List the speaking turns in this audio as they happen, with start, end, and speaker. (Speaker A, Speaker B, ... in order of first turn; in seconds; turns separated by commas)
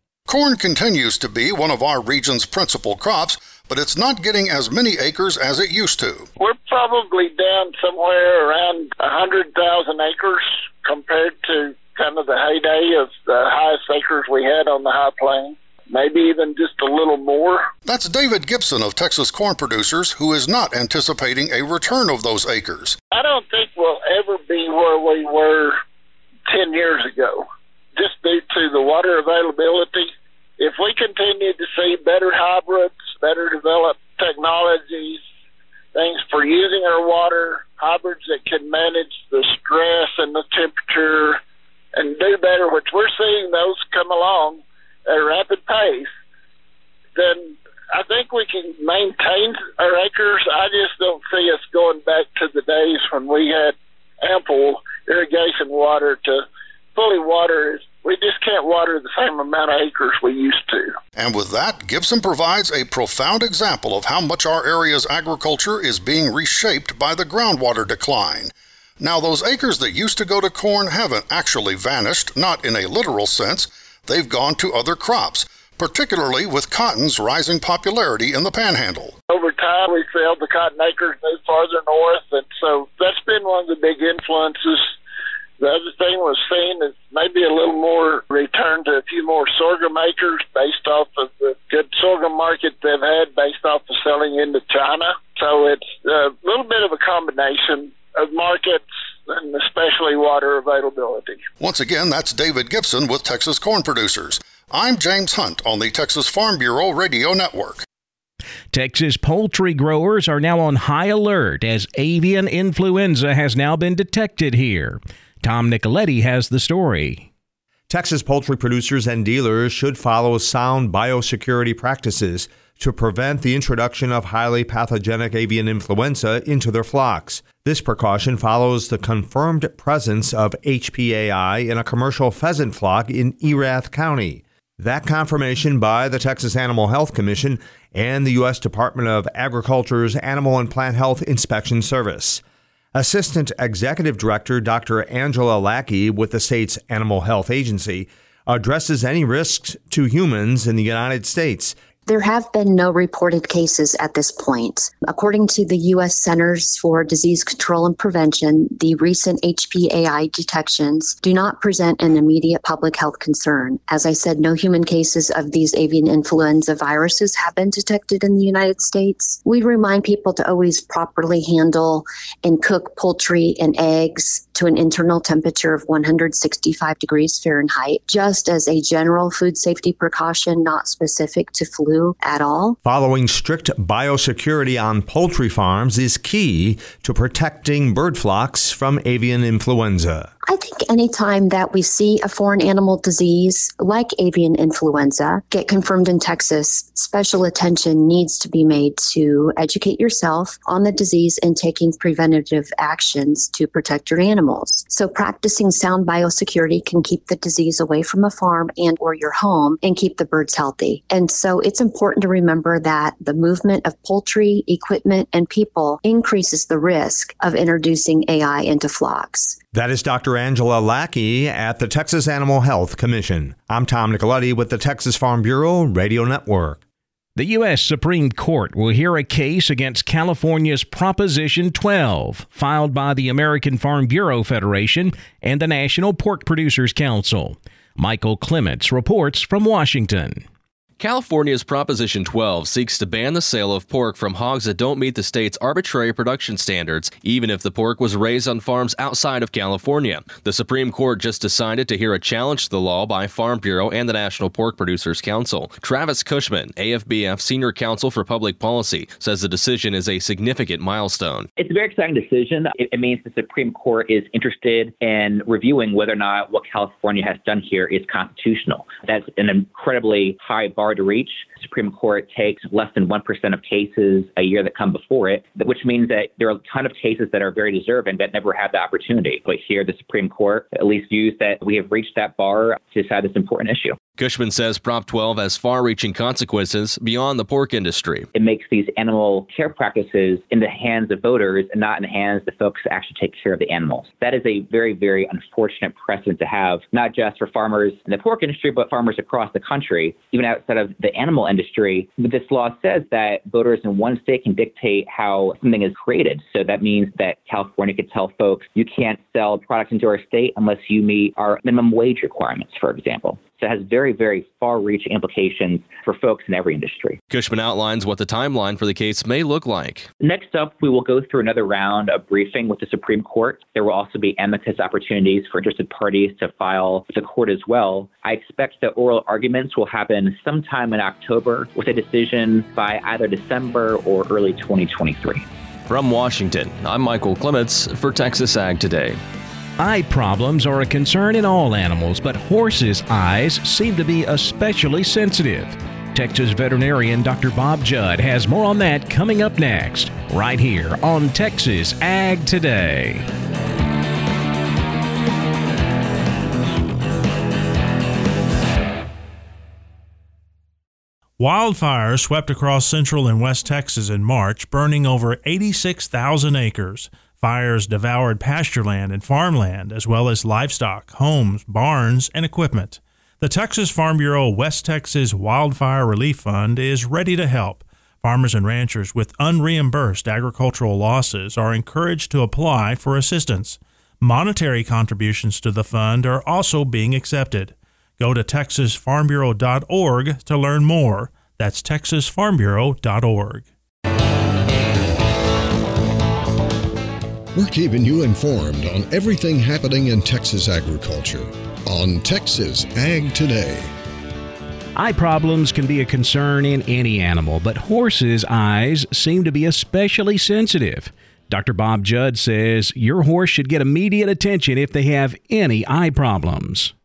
Speaker A: 0.3-6.3, Speaker B: 6.4-17.7, Speaker A: 17.9-23.0, Speaker B: 23.1-25.8, Speaker B: 26.5-27.5, Speaker B: 28.0-35.2, Speaker B: 35.9-41.4, Speaker B: 42.0-46.1, Speaker B: 47.1-61.0, Speaker A: 61.2-79.2, Speaker B: 79.3-84.9, Speaker B: 85.6-101.5, Speaker A: 101.6-107.8, Speaker C: 108.7-117.3, Speaker D: 117.9-142.4, Speaker D: 142.9-151.8, Speaker E: 152.1-182.8, Speaker D: 182.8-190.3, Speaker E: 190.5-219.6, Speaker D: 219.7-226.8, Speaker C: 227.4-240.4, Speaker F: 241.0-261.5, Speaker G: 261.6-284.0, Speaker F: 284.2-288.3, Speaker G: 288.3-317.2, Speaker F: 317.3-320.1, Speaker G: 320.2-335.5, Speaker F: 335.9-339.2, Speaker C: 339.8-353.3, Speaker H: 361.4-393.7, Speaker I: 397.5-403.9, Speaker C: 405.0-416.9